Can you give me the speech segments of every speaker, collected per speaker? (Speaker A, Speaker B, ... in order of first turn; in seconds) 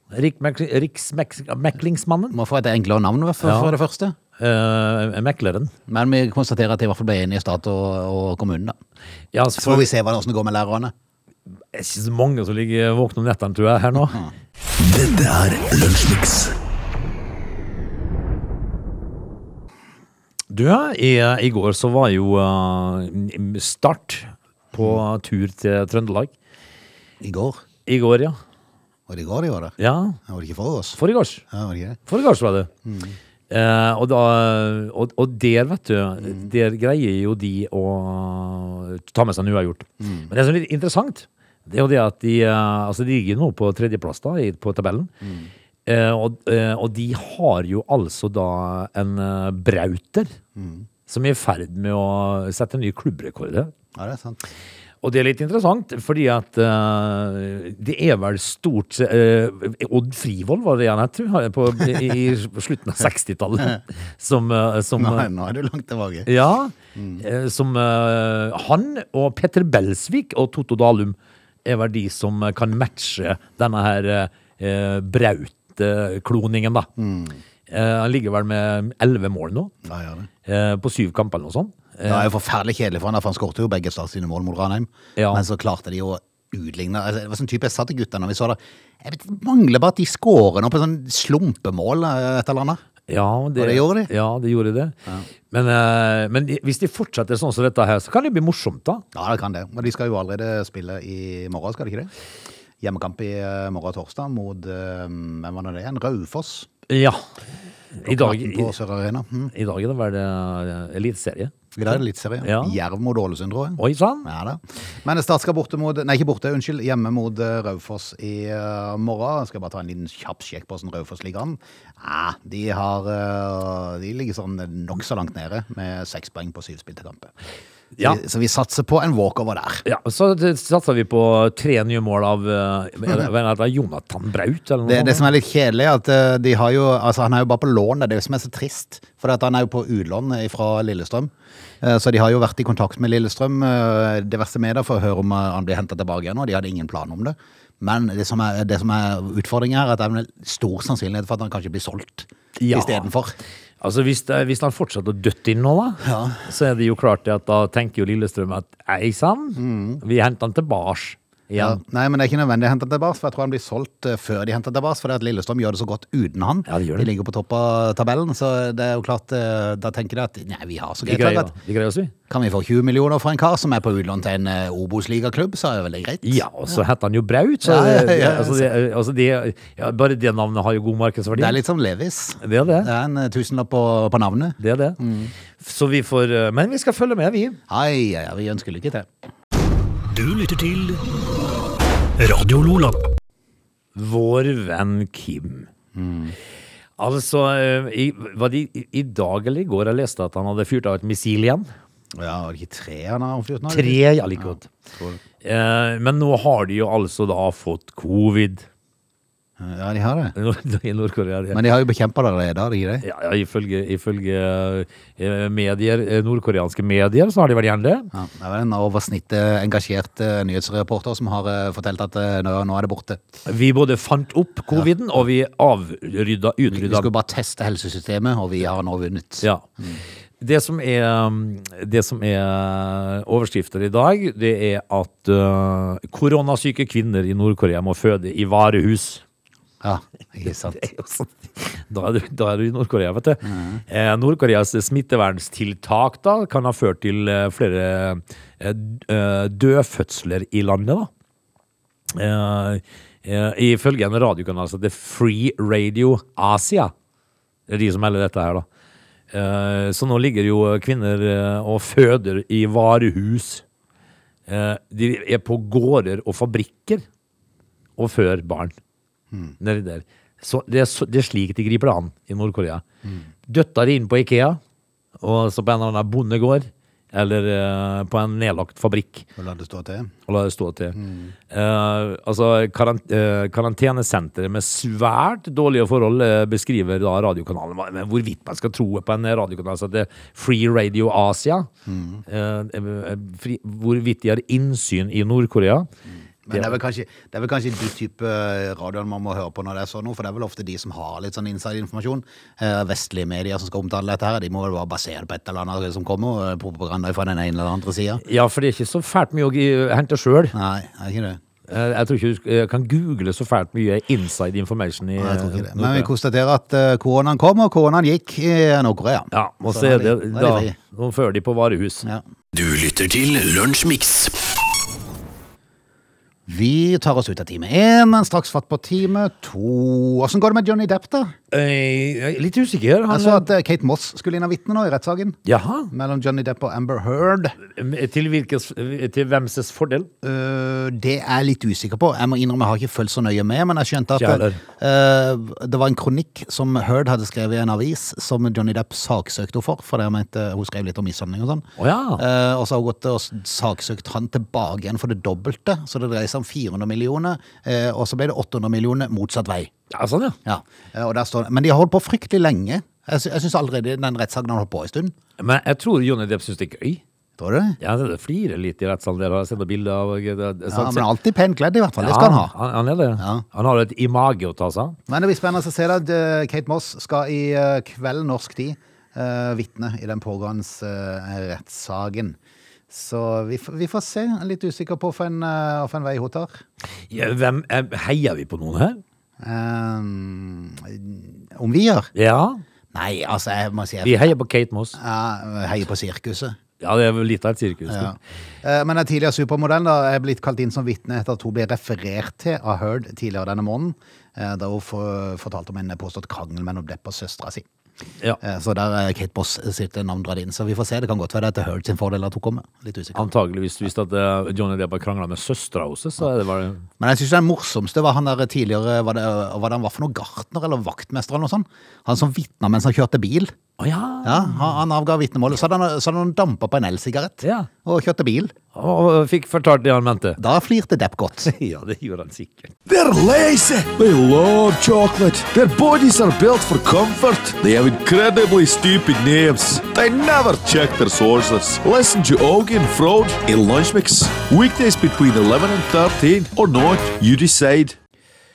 Speaker A: 0.1-2.4, 3.4-3.7, 4.4-5.7, 9.3-9.9, 11.7-14.2, 20.5-26.3, 27.9-28.4, 29.8-30.2, 31.0-31.4, 32.1-32.7, 33.5-45.1, 45.9-50.3, 51.1-53.7, 55.0-65.3, 66.3-76.9, 77.7-79.7, 80.5-82.3, 85.2-85.4, 93.1-95.0, 95.5-99.0, 106.9-107.2, 108.0-108.7, 109.5-112.8, 113.8-114.3, 129.8-135.3, 152.6-153.1, 153.8-161.8, 166.7-167.1, 171.0-172.1, 176.2-181.6, 182.4-182.9, 184.6-185.0, 185.6-187.6, 193.9-195.7, 197.0-201.7, 203.7-204.7, 205.4-208.7, 210.4-211.6, 213.0-218.1, 223.5-227.1, 229.4-229.7, 230.4-239.2, 240.4-251.1, 252.1-256.9, 257.7-258.6, 259.3-263.6, 264.5-267.0, 268.0-268.8, 269.6-272.8, 273.5-274.6, 275.2-279.3, 280.3-281.0, 281.5-291.7, 292.3-295.9, 296.5-296.8, 308.2-310.6, 311.7-316.1, 319.3-322.1, 331.5-333.5, 335.5-335.9, 337.6-340.1, 344.2-344.6, 351.8-352.2, 359.9-360.4, 365.4-367.0, 367.8-371.1, 372.0-375.0, 387.1-389.0, 392.1-392.6, 394.0-395.0, 396.8-398.1, 413.1-416.9, 423.8-424.8, 427.4-427.7, 428.7-430.4, 431.4-432.7
Speaker B: 2.3-4.2, 5.9-8.8, 9.6-10.9, 24.7-25.0, 27.2-27.6, 29.1-29.8, 30.3-31.0, 31.5-32.0, 32.9-33.1, 40.0-40.3, 45.2-45.5, 50.6-50.9, 54.0-54.4, 65.0-66.3, 67.0-67.2, 77.0-77.4, 79.8-80.3, 82.0-92.8, 93.6-94.1, 99.1-102.1, 102.8-106.7, 108.0-109.5, 111.8-127.3, 128.0-129.8, 134.9-153.4, 156.0-156.4, 159.6-160.0, 161.6-171.5, 172.3-176.4, 177.6-178.7, 181.3-185.3, 187.7-189.1, 195.9-196.4, 202.2-205.2, 209.6-210.3, 211.5-213.1, 218.1-223.2, 226.7-230.0, 239.8-240.8, 243.5-243.8, 279.4-280.1, 281.0-281.3, 291.9-292.2, 296.5-308.2, 310.5-311.4, 315.2-320.8, 326.5-331.3, 333.1-335.4, 335.9-337.6, 340.2-351.7, 352.2-359.7, 360.4-365.1, 367.4-367.8, 370.7-372.5, 373.2-373.4, 375.1-382.4, 382.9-386.6, 389.4-392.1, 392.9-394.3, 395.0-396.6, 397.9-407.6, 408.4-413.2, 417.0-423.5, 424.2-428.5, 430.4-431.5
Speaker C: 14.8-16.5, 432.9-448.0
Speaker D: 190.1-191.0, 192.2-193.0, 322.6-324.4